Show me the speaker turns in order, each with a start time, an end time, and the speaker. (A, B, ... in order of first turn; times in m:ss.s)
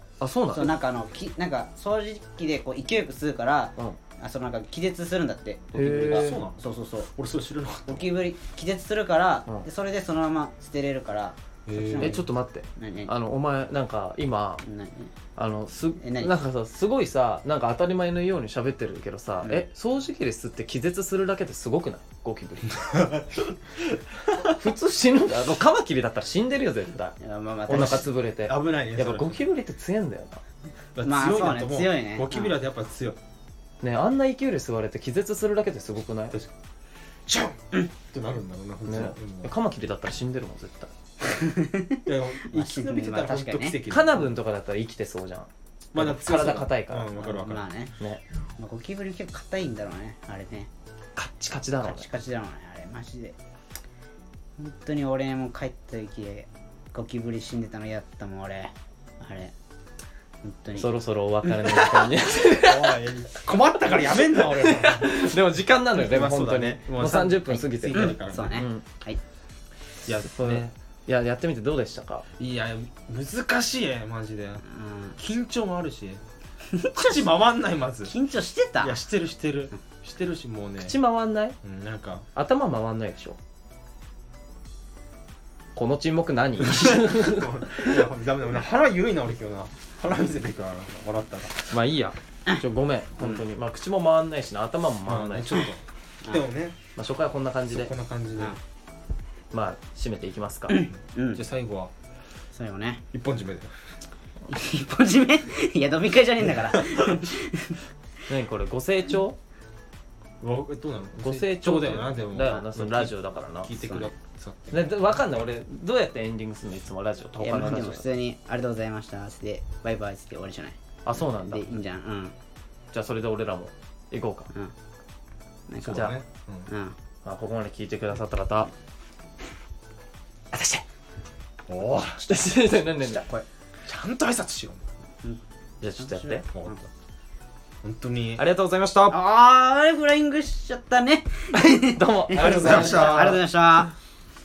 0:00.2-0:00.7 A
0:00.5-0:07.1 B
0:05.7-0:08.1 C
0:05.7-0:06.4 A
0:07.9-0:13.1 B
0:11.6-0:12.2 C
0:12.0-0:14.6 A
0:14.6-0:15.1 B
0:15.4-0:23.2 A
0:16.0-0:16.3 B
0:22.9-0:24.5 C
0:24.5-0:27.2 A
0:27.2-0:28.1 B
0:27.7-0:30.4 A
0:28.4-0:29.4 C
0:31.0-0:33.2 C
0:31.0-0:32.5 B
0:33.8-0:36.4 A
0:37.3-0:39.5 C
0:38.9-0:40.9 A
0:41.2-0:43.8 B
0:42.0-0:44.3 C
0:43.9-0:47.2 A
0:45.9-0:47.6 C
0:47.2-0:47.9 B
0:48.6-0:50.7 B
0:51.2-0:52.0 A
0:51.8-0:53.4 B
0:54.6-0:59.5 B
1:00.4-1:00.9 B
1:00.8-1:03.0 A
1:01.4-1:02.1 B
1:02.6-1:05.3 C
1:04.4-1:08.8 A
1:05.9-1:08.7 C
1:07.9-1:09.2 B
1:10.0-1:10.7 C
1:10.3-1:12.2 A
1:12.4-1:14.6 C
1:14.7-1:15.2 B
1:15.2-1:16.2 C
1:16.7-1:17.2 B
1:16.9-1:18.1 C
1:18.0-1:19.0 B
1:18.8-1:21.0 C
1:20.8-1:21.6 A
1:21.6-1:22.3 C
1:22.4-1:23.4 A
1:25.7-1:27.9 A
1:26.6-1:31.7 C
1:31.7-1:35.6 A
1:35.0-1:36.8 C
1:37.0-1:37.9 A
1:37.7-1:38.6 C
1:39.5-1:40.8 A
1:40.7-1:41.4 B
1:41.3-1:41.9 C
1:42.5-1:43.0 B
1:43.1-1:43.7 C
1:44.5-1:47.8 B
1:46.7-1:47.1 C
1:48.3-1:49.4 A
1:50.4-1:55.0 C
1:51.2-1:54.1 A
1:54.7-1:58.0 A
1:57.4-2:00.8 B
2:01.0-2:01.6 A
2:01.4-2:02.3 B
2:02.9-2:04.5 A
2:05.7-2:06.1 B
2:05.8-2:06.7 C
2:05.9-2:06.1 A
2:06.7-2:07.0 B
2:07.2-2:08.7 A
2:10.5-2:10.8 A
2:11.7-2:12.2 C
2:12.2-2:13.3 A
2:13.8-2:14.9 C
2:15.8-2:16.4 A
2:16.0-2:16.8 B
2:16.5-2:16.8 C
2:17.8-2:18.4 C
2:18.4-2:19.2 A
2:19.1-2:23.9 B
2:21.5-2:23.4 A
2:22.3-2:23.4 C